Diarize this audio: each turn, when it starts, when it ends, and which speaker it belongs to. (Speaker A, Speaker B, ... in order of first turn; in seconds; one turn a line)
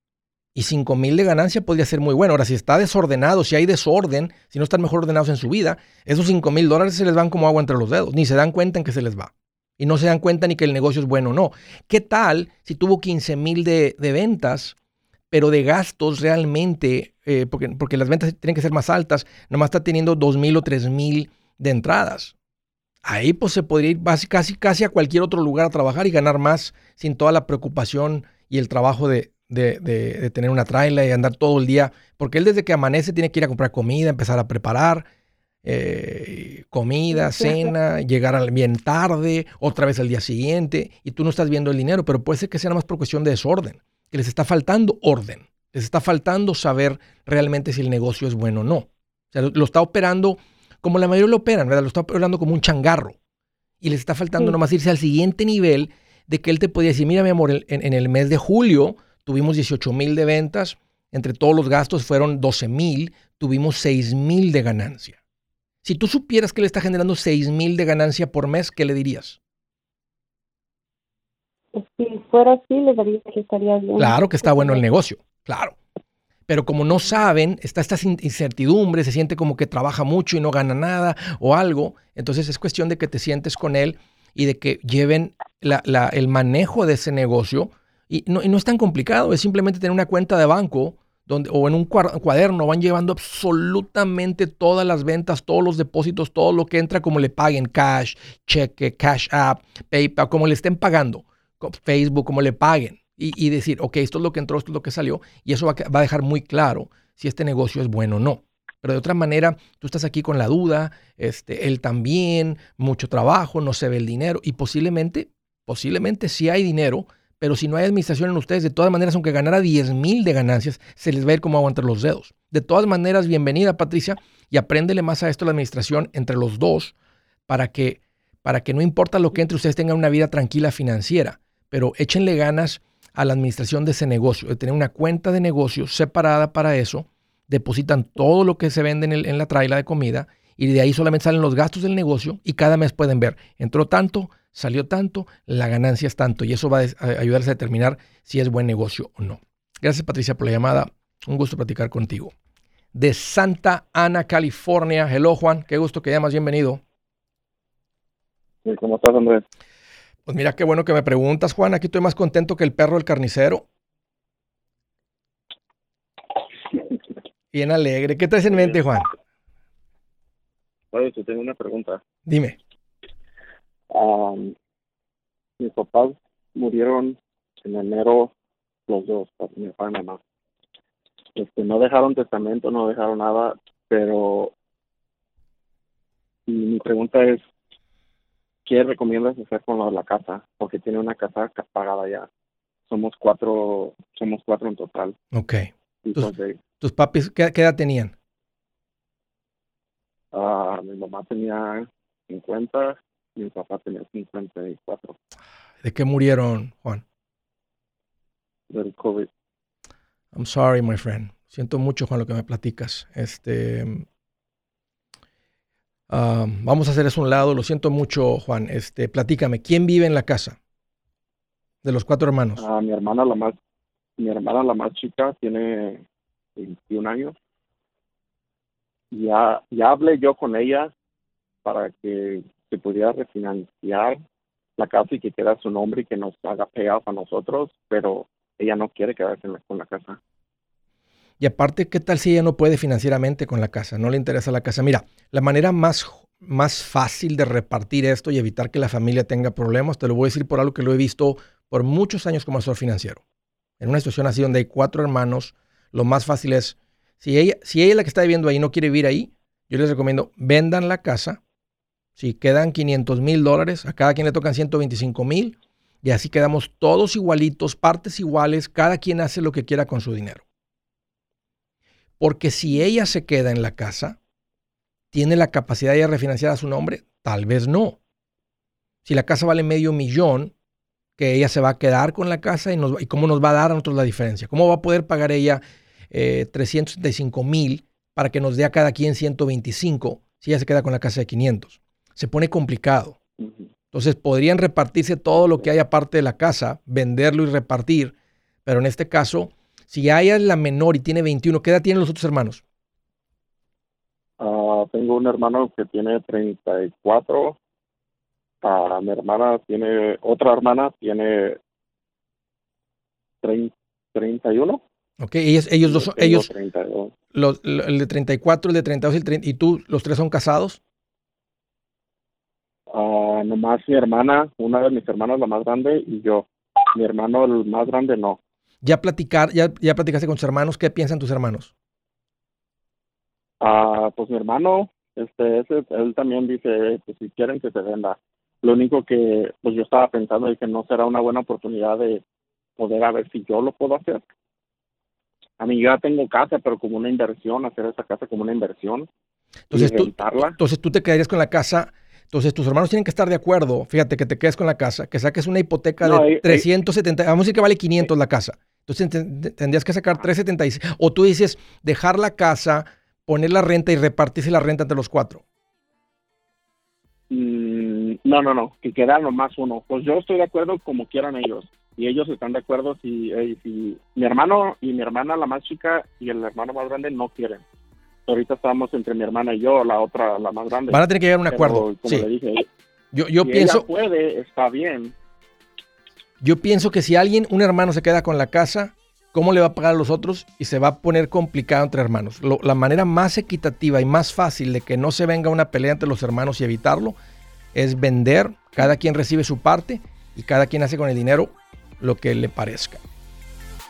Speaker A: 0.6-14.8
Speaker A: 15.3-22.3
Speaker A: 23.1-35.1
Speaker A: 35.6-53.2
Speaker B: 37.3-37.6
Speaker A: 53.8-65.2
Speaker A: 65.8-69.4
Speaker B: 71.7-74.8
Speaker A: 74.0-75.8
Speaker A: 76.5-126.9
Speaker A: 127.5-152.3
Speaker A: 152.9-156.8
Speaker C: 158.7-159.4
Speaker A: 160.3-163.7
Speaker A: 167.5-169.1
Speaker C: 170.9-172.0
Speaker A: 172.3-172.6
Speaker C: 173.9-174.6
Speaker C: 175.6-178.3
Speaker C: 178.9-180.2
Speaker C: 181.4-184.5
Speaker C: 186.5-187.4
Speaker C: 188.7-192.3
Speaker C: 192.9-195.2
Speaker A: 195.3-198.1
Speaker C: 196.1-196.6
Speaker C: 200.3-205.2
Speaker A: 205.8-207.0
Speaker C: 208.7-209.3
Speaker A: 210.3-214.1
Speaker A: 216.1-220.6
Speaker A: 221.8-222.6
Speaker C: 222.6-223.6
Speaker C: 224.2-226.1
Speaker C: 226.6-227.4
Speaker C: 229.1-230.9
Speaker C: 231.6-234.2
Speaker C: 234.8-240.2
Speaker A: 241.4-253.2
Speaker A: 253.8-261.4
Speaker A: 262.2-270.4
Speaker A: 272.2-274.2
Speaker A: 275.1-278.0
Speaker A: 279.1-280.5
Speaker A: 281.2-293.2
Speaker C: 293.4-293.7
Speaker A: 293.9-298.1
Speaker A: 298.7-302.6
Speaker C: 304.4-307.6
Speaker C: 308.6-311.6
Speaker C: 313.4-314.8
Speaker A: 315.2-316.5
Speaker C: 315.8-317.1
Speaker A: 317.3-320.8
Speaker C: 322.9-328.4
Speaker A: 328.8-331.7
Speaker C: 333.6-342.2
Speaker C: 342.8-344.2
Speaker C: 345.6-349.1
Speaker A: 349.7-365.4
Speaker C: 349.7-350.6
Speaker C: 356.0-356.7
Speaker C: 367.3-377.6
Speaker C: 378.3-382.7
Speaker A: 380.9-382.3
Speaker A: 383.1-383.9
Speaker C: 383.4-385.1
Speaker A: 386.4-397.2
Speaker A: 397.7-403.0